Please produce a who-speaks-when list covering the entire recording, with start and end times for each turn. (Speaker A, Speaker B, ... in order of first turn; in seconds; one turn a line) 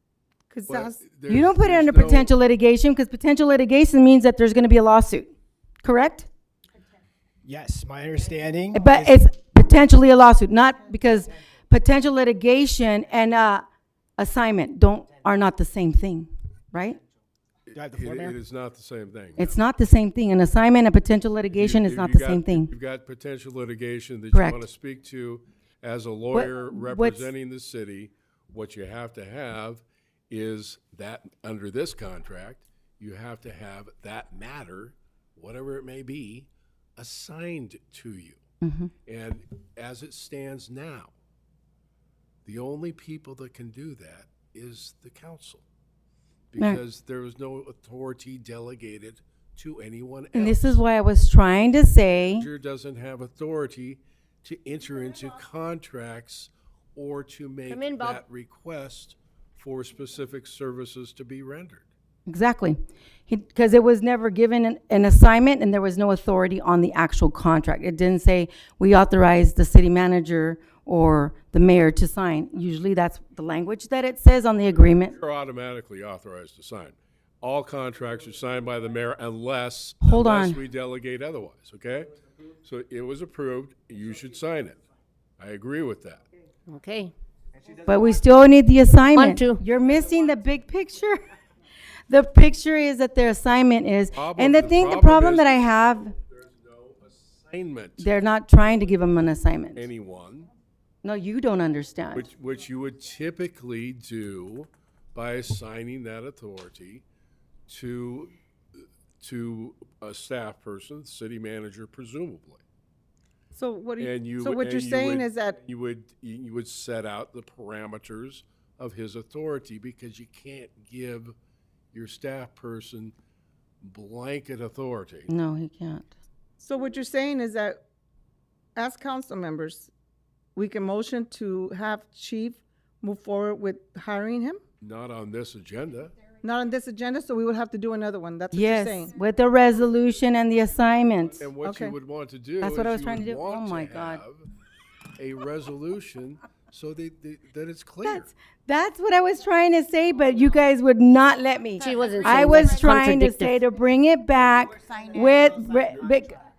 Speaker A: 0.5-1.0
Speaker B: 0.7-2.3
Speaker C: 1.3-5.3
Speaker C: 5.8-6.3
Speaker D: 7.4-9.2
Speaker C: 8.7-13.7
Speaker C: 14.2-17.0
Speaker B: 17.7-19.6
Speaker D: 17.7-18.4
Speaker C: 19.4-22.7
Speaker B: 21.5-38.4
Speaker C: 24.3-24.6
Speaker C: 26.3-27.3
Speaker C: 38.6-38.9
Speaker B: 39.1-41.1
Speaker B: 42.5-45.6
Speaker B: 46.5-50.8
Speaker C: 50.3-52.5
Speaker B: 52.4-61.9
Speaker E: 57.7-58.2
Speaker C: 62.3-75.2
Speaker B: 75.1-84.8
Speaker C: 80.0-80.6
Speaker B: 85.4-86.2
Speaker E: 86.7-87.1
Speaker C: 87.8-91.2
Speaker E: 89.2-89.6
Speaker C: 92.1-96.2
Speaker B: 94.1-98.1
Speaker C: 98.0-99.9
Speaker B: 99.8-100.5
Speaker C: 101.0-102.3
Speaker B: 102.1-107.0
Speaker B: 107.7-112.6
Speaker A: 113.5-115.6
Speaker B: 114.0-121.3
Speaker B: 121.9-123.1
Speaker B: 123.8-125.3
Speaker C: 125.3-126.2
Speaker A: 126.6-127.8
Speaker A: 128.8-129.9
Speaker A: 130.6-134.6
Speaker B: 134.8-136.2
Speaker A: 136.4-139.1
Speaker C: 138.5-141.5
Speaker B: 141.4-144.5
Speaker A: 141.6-141.9
Speaker C: 142.6-144.2
Speaker B: 145.2-148.3
Speaker C: 148.0-156.4
Speaker E: 151.8-153.6